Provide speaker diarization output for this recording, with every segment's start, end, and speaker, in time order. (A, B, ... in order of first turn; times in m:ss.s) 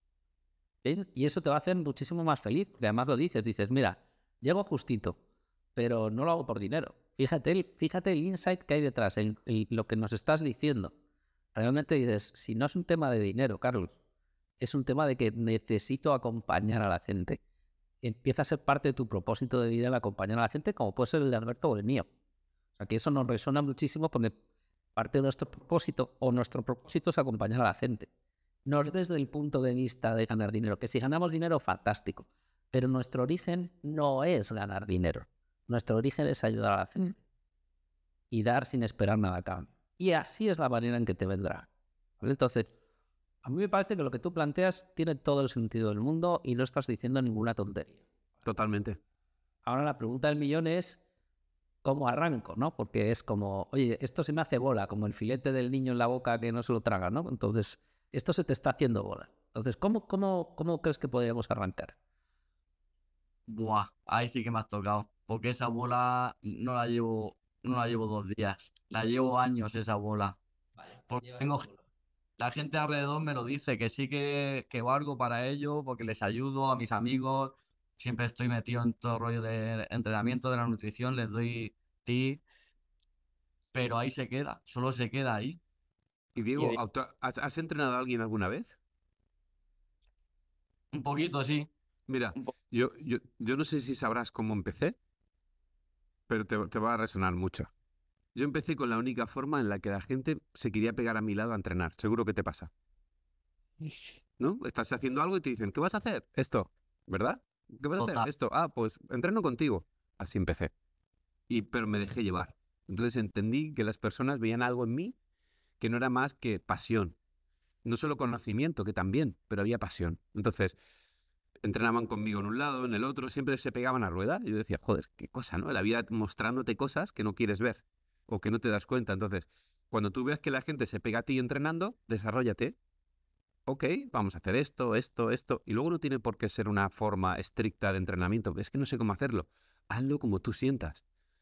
0:00.8-0:05.2 A
0:05.8-0:10.9 A
0:11.5-0:14.0 A
0:14.6-0:17.4 A
0:18.0-0:22.1 A
0:22.8-0:24.3 A
0:25.0-0:28.1 A
0:28.7-0:37.2 A
0:38.3-0:41.7 A
0:42.2-0:42.7 A
0:43.4-0:48.0 A
0:48.4-0:49.0 B
0:49.6-0:51.0 A
0:51.8-1:02.0 A
1:03.5-1:10.4 C
1:11.1-1:11.7 C
1:12.4-1:22.4 C
1:23.7-1:25.6 C
1:26.4-1:28.8 B
1:30.9-1:31.7 C
1:32.1-1:35.0 B
1:36.3-1:37.7 B
1:38.4-1:42.7 B
1:43.8-1:50.7 B
1:48.0-1:48.3 C
1:51.5-1:55.2 B
1:55.8-1:57.2 B
1:57.8-2:00.8 B
2:01.6-2:12.8 B
2:13.7-2:21.0 B